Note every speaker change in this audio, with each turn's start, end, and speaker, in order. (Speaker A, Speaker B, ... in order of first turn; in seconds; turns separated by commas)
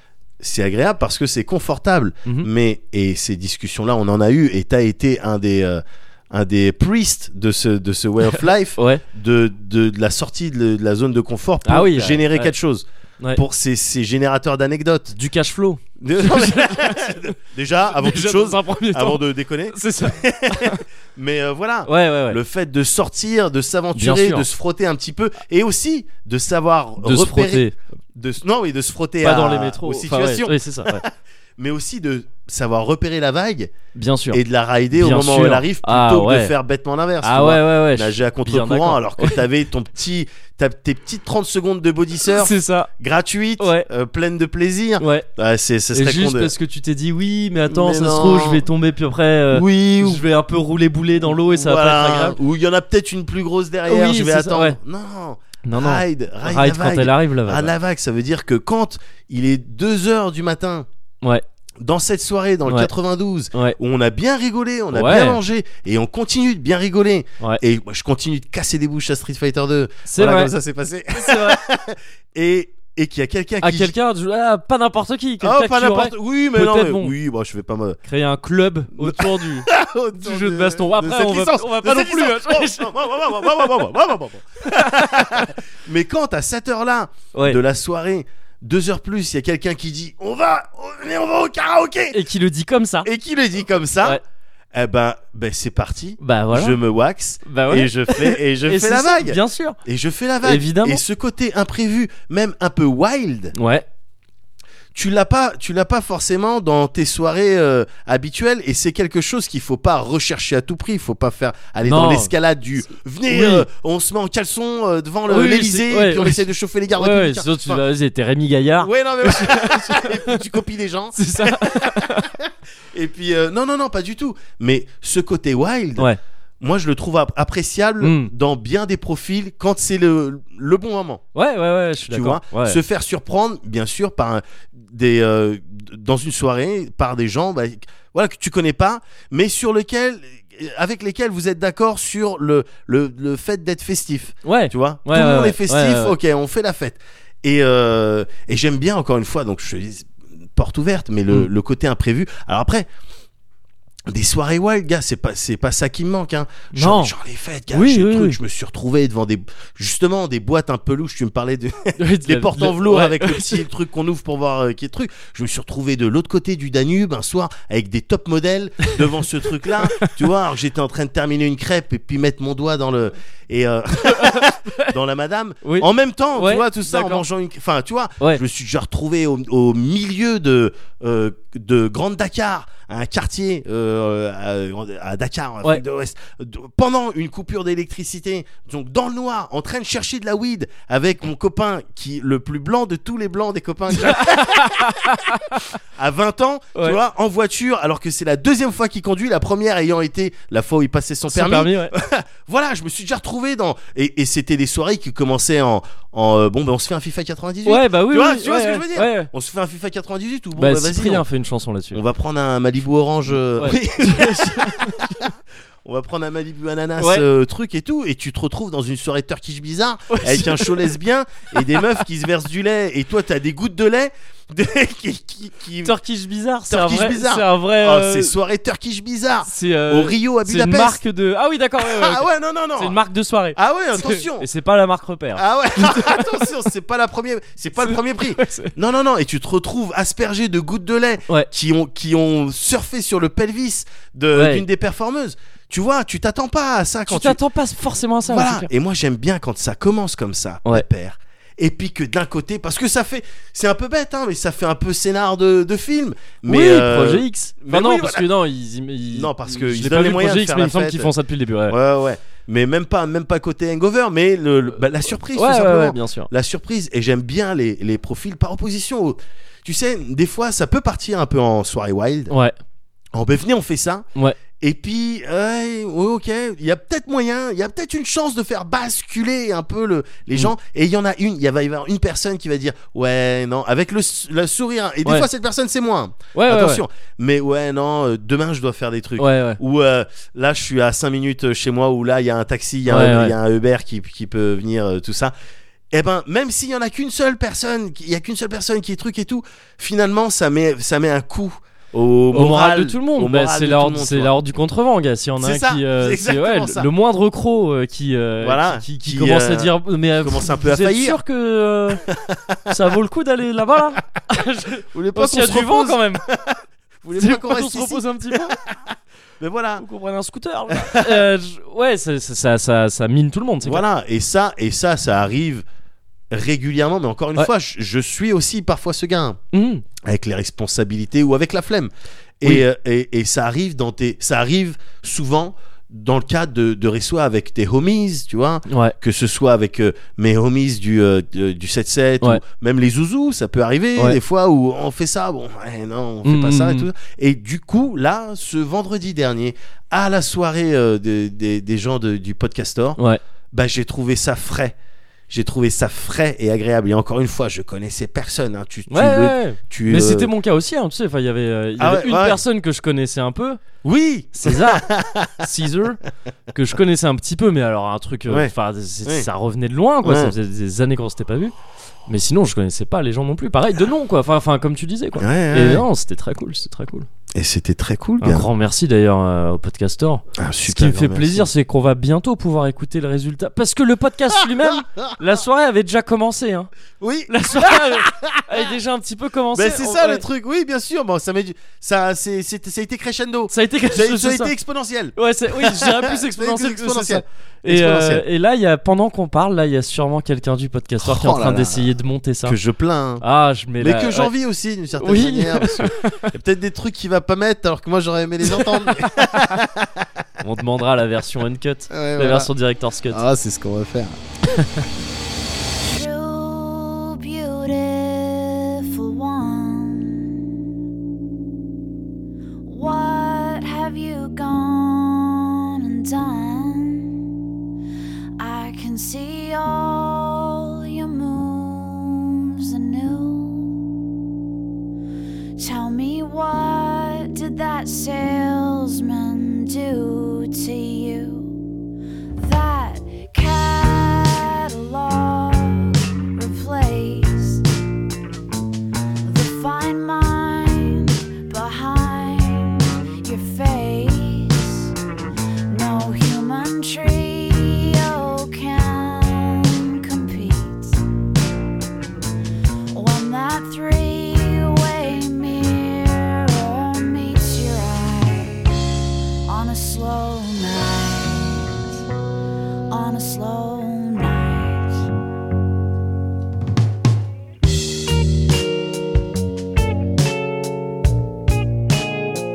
Speaker A: 0.4-15.1, Speaker B: 8.3-9.0, Speaker B: 11.6-12.5, Speaker B: 15.1-17.3, Speaker A: 16.0-33.7, Speaker B: 17.9-20.8, Speaker B: 21.9-22.4, Speaker B: 23.9-24.5, Speaker B: 27.0-27.7, Speaker B: 29.2-31.0, Speaker B: 33.9-34.4, Speaker A: 34.3-46.5, Speaker B: 34.9-36.5, Speaker B: 37.2-39.4, Speaker B: 42.3-42.9, Speaker B: 43.6-43.9, Speaker B: 45.0-45.3, Speaker B: 45.9-52.4, Speaker A: 47.7-48.6, Speaker A: 49.5-50.2, Speaker A: 51.2-60.9, Speaker B: 53.9-54.8, Speaker B: 55.6-57.7, Speaker A: 61.8-73.9, Speaker B: 62.6-62.9, Speaker B: 64.9-65.4, Speaker B: 70.0-70.5, Speaker B: 71.1-71.6, Speaker B: 73.6-77.1, Speaker A: 75.4-78.0, Speaker B: 78.0-82.9, Speaker A: 79.0-92.2, Speaker B: 84.6-85.5, Speaker B: 87.3-87.6, Speaker B: 92.1-93.1, Speaker A: 93.0-94.2, Speaker A: 94.7-103.5, Speaker B: 96.2-96.8, Speaker B: 97.4-99.8, Speaker B: 100.4-101.0, Speaker B: 103.5-103.8, Speaker A: 104.9-117.8, Speaker B: 111.8-112.3, Speaker B: 113.3-113.7, Speaker B: 115.3-120.4, Speaker A: 118.8-126.1, Speaker B: 121.1-122.3, Speaker A: 126.6-131.2, Speaker B: 128.0-128.3, Speaker B: 131.3-132.8, Speaker A: 132.1-152.9, Speaker B: 144.4-146.2, Speaker A: 154.1-195.0, Speaker B: 156.7-157.1, Speaker B: 157.7-158.4, Speaker B: 162.0-163.6, Speaker B: 169.8-170.1, Speaker B: 174.1-174.9, Speaker B: 175.6-177.2, Speaker B: 193.9-195.7, Speaker A: 195.9-211.2, Speaker B: 201.3-201.9, Speaker B: 207.7-209.3, Speaker B: 210.6-212.0, Speaker A: 211.9-215.3, Speaker B: 213.6-215.1, Speaker A: 215.8-225.9, Speaker B: 217.0-217.2, Speaker B: 220.1-220.9, Speaker B: 221.6-221.9, Speaker B: 225.8-228.3, Speaker A: 226.7-231.0, Speaker B: 229.4-232.2, Speaker A: 231.8-233.0, Speaker B: 232.8-236.5, Speaker A: 233.5-234.5, Speaker A: 235.3-247.4, Speaker B: 237.8-238.7, Speaker B: 244.3-244.6, Speaker B: 247.1-248.7, Speaker A: 248.2-258.3, Speaker B: 256.4-261.8, Speaker A: 259.1-261.1, Speaker A: 261.7-272.3, Speaker B: 265.3-266.3, Speaker B: 272.3-272.5, Speaker A: 273.1-274.1, Speaker A: 274.6-295.3, Speaker B: 286.3-286.8, Speaker B: 289.2-289.6, Speaker B: 292.9-293.3, Speaker A: 295.9-304.4, Speaker B: 302.3-312.0, Speaker A: 305.4-306.9, Speaker A: 308.4-311.2, Speaker A: 312.1-312.7, Speaker B: 312.7-316.2, Speaker A: 314.9-319.8, Speaker B: 317.1-318.6, Speaker B: 319.8-323.8, Speaker A: 320.7-321.3, Speaker A: 323.6-325.6, Speaker A: 326.3-329.4, Speaker B: 329.5-329.8, Speaker A: 330.0-353.0, Speaker B: 338.7-338.9, Speaker B: 346.2-346.9, Speaker A: 353.5-354.8, Speaker A: 355.3-360.3, Speaker B: 358.9-363.6, Speaker A: 361.8-362.4, Speaker A: 363.8-365.4, Speaker B: 364.3-366.0, Speaker B: 366.5-371.5, Speaker A: 368.3-368.5, Speaker A: 370.0-370.3, Speaker B: 372.1-377.1, Speaker A: 375.2-375.8, Speaker A: 377.3-378.5, Speaker B: 378.2-386.7, Speaker A: 380.4-381.5, Speaker A: 384.6-385.1, Speaker A: 387.0-388.6, Speaker B: 387.3-390.2, Speaker A: 389.5-398.2, Speaker B: 393.5-394.5, Speaker B: 395.1-402.6, Speaker A: 401.0-401.9, Speaker A: 402.4-403.2, Speaker B: 403.2-404.3, Speaker A: 403.8-410.1, Speaker B: 405.0-406.3, Speaker B: 408.5-409.3, Speaker B: 410.4-413.2, Speaker A: 411.9-412.5, Speaker A: 413.1-414.1, Speaker B: 414.5-414.8, Speaker C: 415.8-420.6, Speaker C: 422.6-427.3, Speaker C: 428.4-433.8, Speaker C: 435.6-441.6, Speaker C: 442.4-447.6, Speaker C: 449.2-454.9, Speaker C: 455.7-461.0, Speaker C: 462.9-468.7, Speaker C: 469.5-471.9, Speaker C: 472.9-475.1